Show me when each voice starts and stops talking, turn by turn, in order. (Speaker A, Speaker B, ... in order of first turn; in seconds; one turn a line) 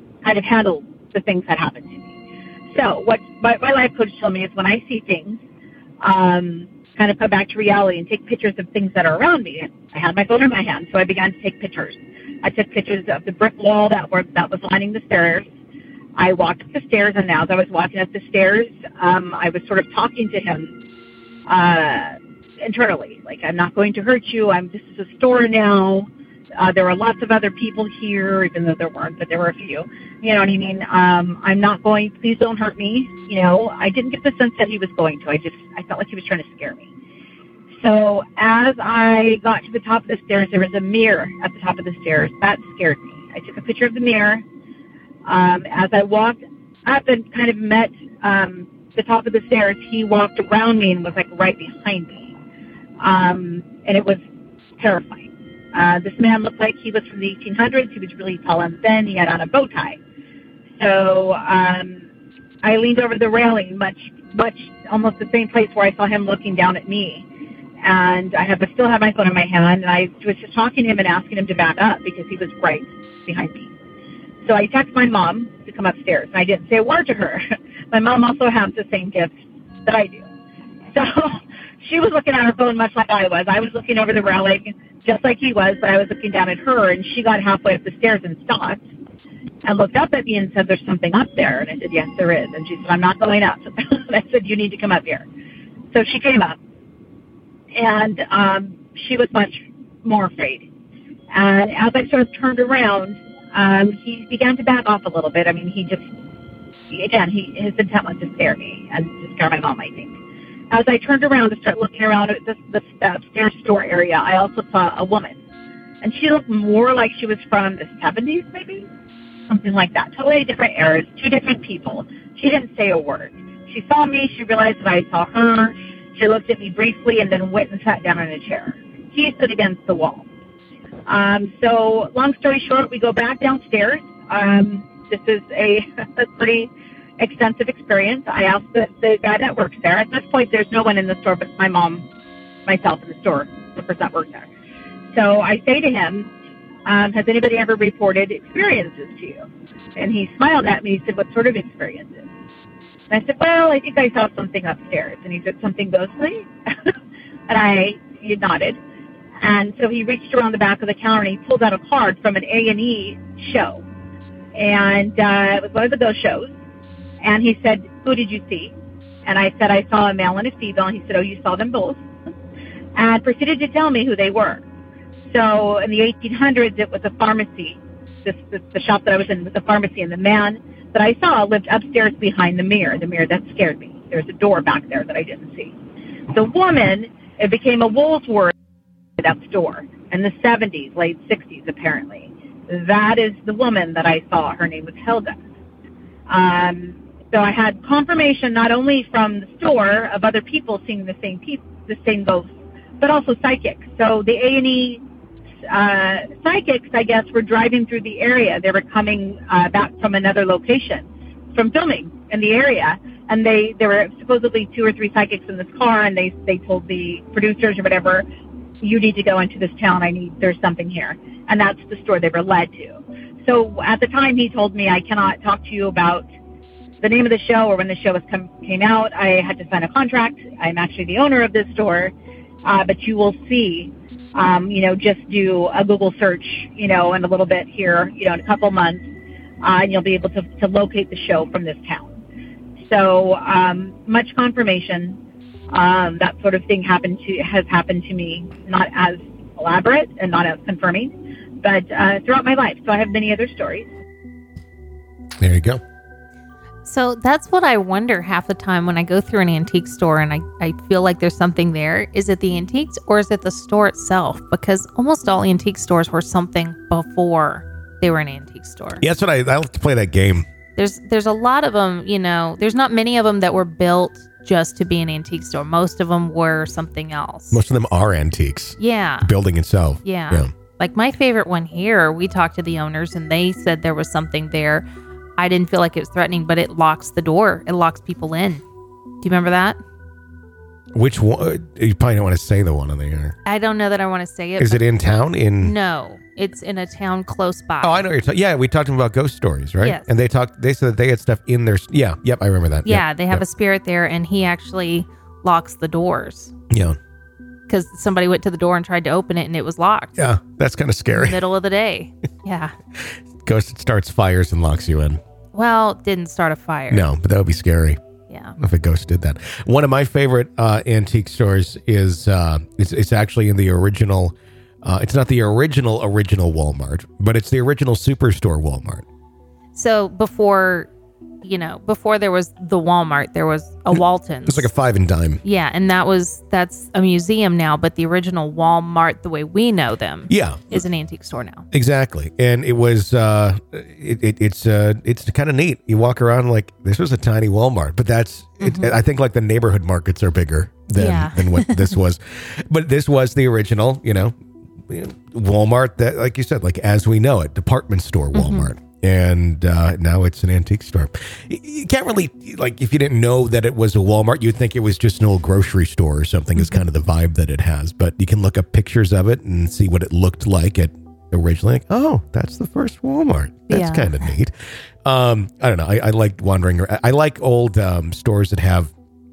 Speaker A: 0.2-2.1
Speaker A: 2.7-5.4
Speaker A: 6.0-15.5
Speaker A: 16.2-20.7
Speaker A: 21.5-36.9
Speaker A: 37.8-44.4
Speaker A: 45.3-52.3
Speaker A: 53.0-54.2
Speaker A: 54.8-60.0
Speaker A: 60.8-62.0
Speaker A: 62.6-67.3
Speaker A: 67.8-73.7
Speaker A: 74.4-79.3
Speaker A: 79.9-80.3
Speaker A: 80.9-88.8
Speaker A: 89.7-95.3
Speaker A: 95.9-96.6
Speaker A: 97.8-100.7
Speaker A: 101.3-106.1
Speaker A: 106.9-110.2
Speaker A: 110.7-115.4
Speaker A: 116.0-118.9
Speaker A: 119.5-130.3
Speaker A: 131.1-142.1
Speaker A: 142.7-144.5
Speaker A: 145.1-146.3
Speaker A: 146.9-149.4
Speaker A: 150.0-152.3
Speaker A: 153.1-156.9
Speaker A: 157.5-158.8
Speaker A: 159.4-163.8
Speaker A: 164.5-166.5
Speaker A: 167.2-168.7
Speaker A: 169.3-172.0
Speaker A: 173.0-174.6
Speaker A: 175.3-185.7
Speaker A: 186.3-188.5
Speaker A: 189.2-195.4
Speaker A: 196.3-205.0
Speaker A: 205.7-218.3
Speaker A: 218.8-226.3
Speaker A: 227.0-239.1
Speaker A: 239.6-242.1
Speaker A: 242.8-245.2
Speaker A: 245.7-253.9
Speaker B: 255.4-255.8
Speaker C: 256.9-269.0
Speaker B: 269.0-270.5
Speaker C: 270.8-277.6
Speaker B: 277.5-280.5
Speaker C: 278.8-279.3
Speaker C: 280.0-284.9
Speaker C: 285.4-288.6
Speaker C: 289.2-289.8
Speaker B: 290.9-293.4
Speaker C: 293.5-294.9
Speaker B: 294.6-295.7
Speaker C: 295.6-298.1
Speaker B: 297.8-303.4
Speaker C: 302.9-306.5
Speaker B: 306.7-307.0
Speaker C: 307.7-310.2
Speaker B: 310.2-311.4
Speaker C: 311.1-312.7
Speaker B: 313.4-315.2
Speaker C: 315.5-317.1
Speaker B: 316.9-318.0
Speaker C: 318.3-318.6
Speaker B: 318.6-329.1
Speaker C: 329.8-330.9
Speaker C: 331.4-334.7
Speaker B: 333.9-335.4
Speaker C: 335.4-341.6
Speaker B: 340.3-340.7
Speaker B: 341.7-354.4
Speaker C: 348.6-348.9
Speaker C: 351.0-352.0
Speaker B: 354.9-374.5
Speaker C: 358.4-358.7
Speaker C: 366.6-366.8
Speaker C: 373.7-374.3
Speaker B: 375.0-378.9